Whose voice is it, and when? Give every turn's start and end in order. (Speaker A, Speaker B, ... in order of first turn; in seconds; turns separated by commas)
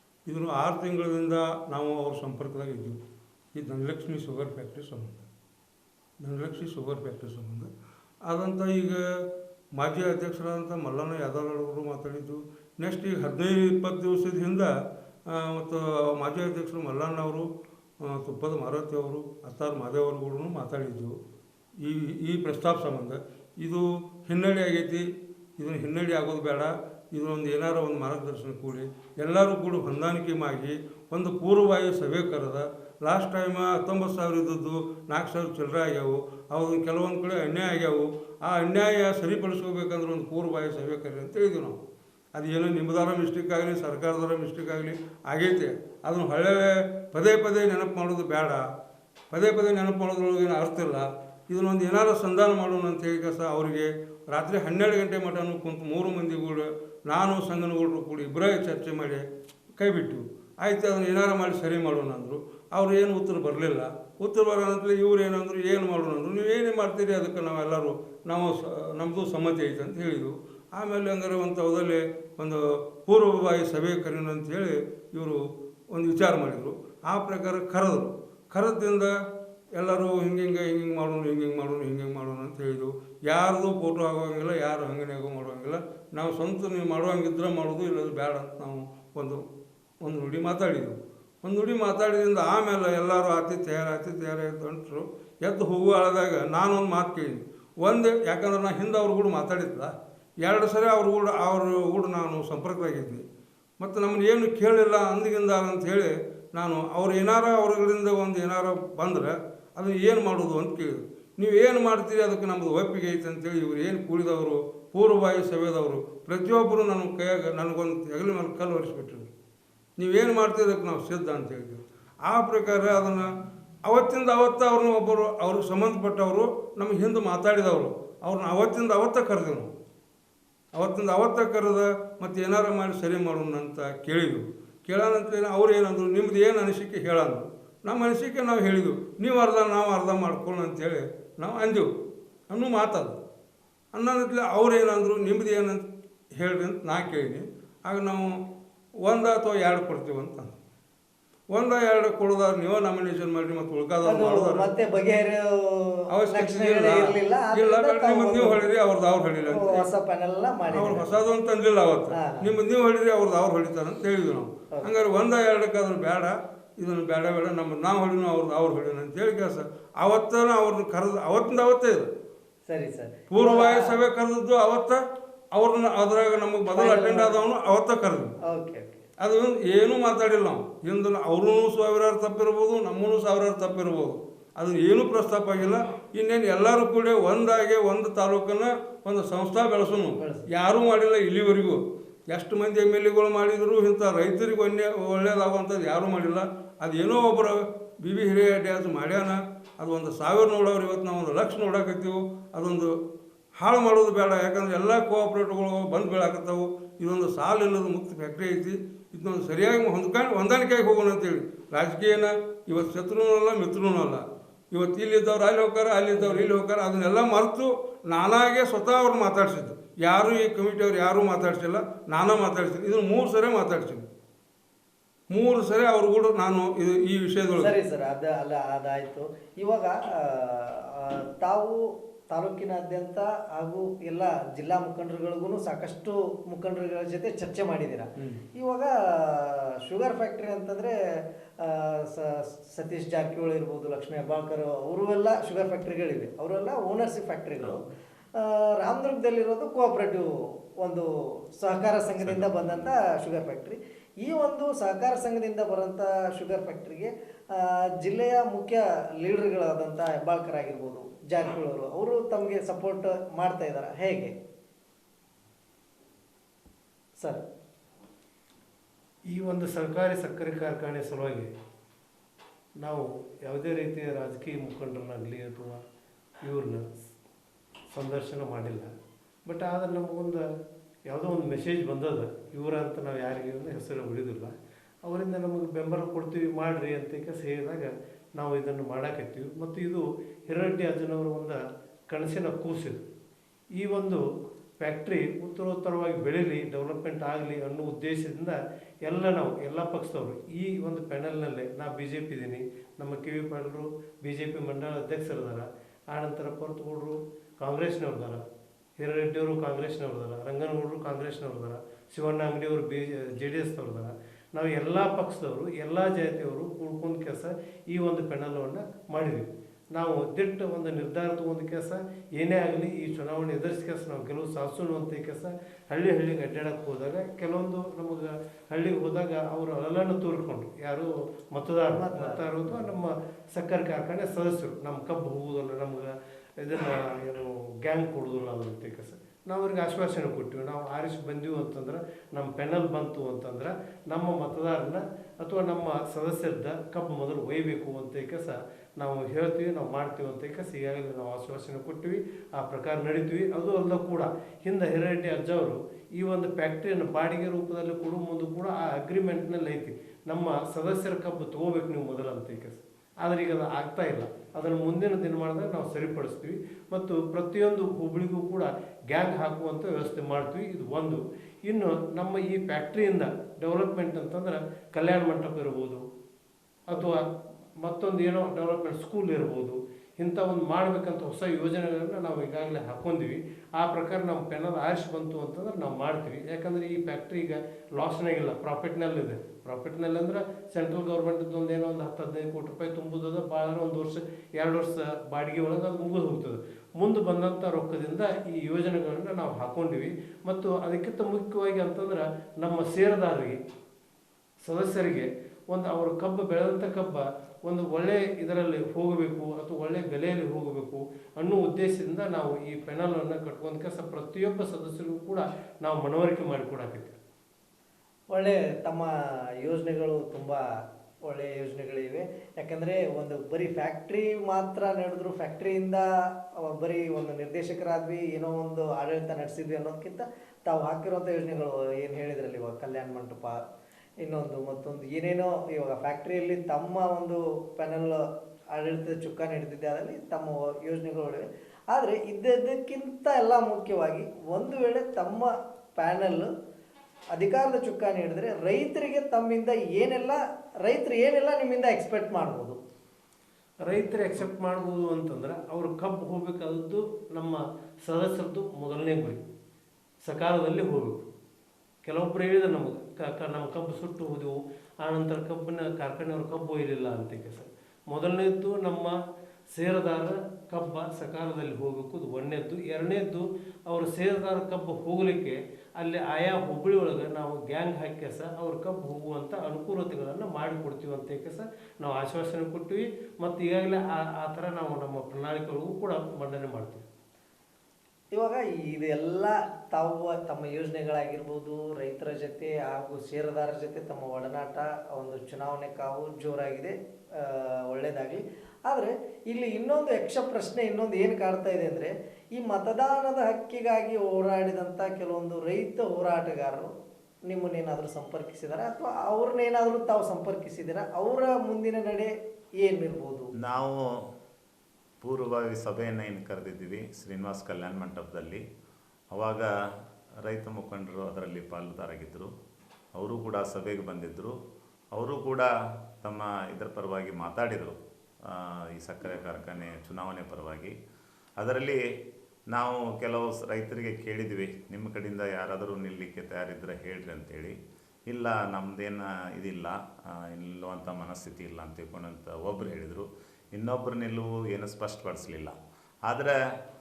Speaker A: 0.2-3.0, Speaker A: 3.5-5.2, Speaker A: 6.2-7.7, Speaker A: 8.2-14.7, Speaker A: 15.3-17.5, Speaker A: 18.0-21.2, Speaker A: 21.8-25.1, Speaker A: 25.6-41.8, Speaker A: 42.3-48.6, Speaker A: 49.3-59.2, Speaker A: 59.8-79.1, Speaker A: 79.7-89.4, Speaker A: 90.0-103.2, Speaker A: 103.8-119.3, Speaker A: 120.0-123.3, Speaker A: 123.8-129.7, Speaker A: 130.7-141.9, Speaker A: 142.5-143.2, Speaker A: 143.9-148.3, Speaker A: 149.0-150.5, Speaker A: 151.5-154.7, Speaker B: 154.0-158.6, Speaker A: 156.1-159.9, Speaker B: 159.5-161.1, Speaker A: 160.7-172.1, Speaker B: 162.1-162.5, Speaker B: 172.7-174.0, Speaker A: 173.3-175.0, Speaker A: 175.5-178.3, Speaker B: 176.7-177.3, Speaker B: 178.4-179.0, Speaker A: 179.2-202.9, Speaker B: 190.2-190.5, Speaker A: 203.6-224.1, Speaker B: 216.2-216.5, Speaker A: 225.3-227.7, Speaker B: 227.5-240.9, Speaker B: 241.6-247.8, Speaker B: 248.4-264.3, Speaker C: 252.2-252.9, Speaker D: 269.3-271.5, Speaker D: 272.8-275.8, Speaker D: 276.4-277.0, Speaker D: 277.9-278.9, Speaker D: 279.4-280.4, Speaker D: 281.1-293.0, Speaker D: 293.8-294.2, Speaker D: 294.8-308.4, Speaker D: 309.0-376.0, Speaker B: 332.1-332.4, Speaker D: 376.9-377.3, Speaker D: 377.8-403.6, Speaker D: 404.6-417.1, Speaker B: 418.3-420.6, Speaker B: 421.2-433.6, Speaker B: 434.2-446.5, Speaker B: 447.3-452.8, Speaker D: 453.8-459.4, Speaker D: 460.2-461.2, Speaker D: 462.0-469.2, Speaker D: 469.7-487.0, Speaker B: 488.3-506.9, Speaker B: 507.4-513.5, Speaker C: 513.6-514.0, Speaker C: 515.2-518.6, Speaker C: 519.3-519.7, Speaker C: 520.4-522.5, Speaker C: 523.1-524.5, Speaker C: 525.1-525.7, Speaker C: 526.2-527.9, Speaker C: 528.4-530.9, Speaker C: 531.6-532.0, Speaker C: 532.7-537.8, Speaker C: 538.3-545.7, Speaker C: 546.2-546.5